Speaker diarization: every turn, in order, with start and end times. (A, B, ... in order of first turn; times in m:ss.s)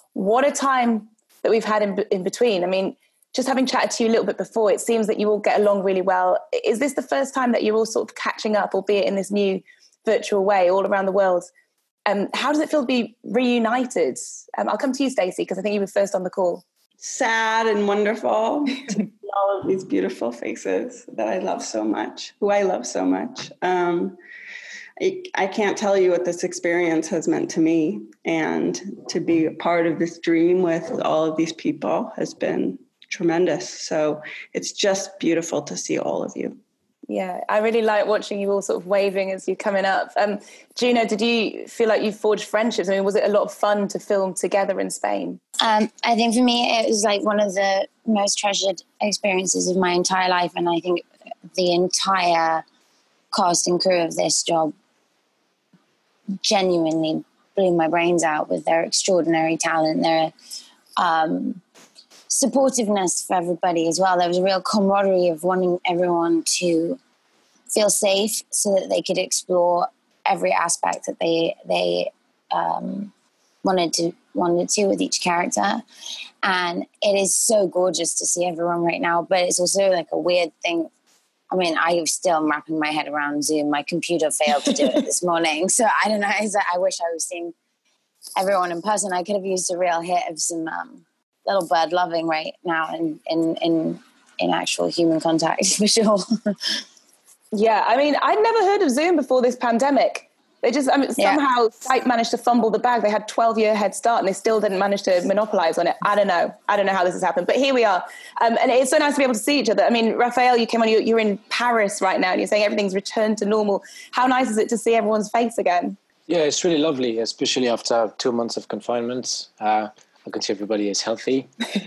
0:00.2-0:11.5 A
0:12.1-0:16.6 A
0:17.0-0:24.2 B
0:25.0-0:36.6 B
0:37.1-0:45.4 A
0:45.6-0:52.6 C
0:53.3-0:54.7 C
0:56.4-1:00.3 C
1:01.0-1:01.6 C
1:02.3-1:07.0 C
1:07.7-1:13.1 C
1:13.6-1:15.8 C
1:16.4-1:20.9 C
1:21.5-1:27.5 C
1:28.4-1:36.8 C
1:37.5-1:56.0 A
1:56.3-2:01.5 D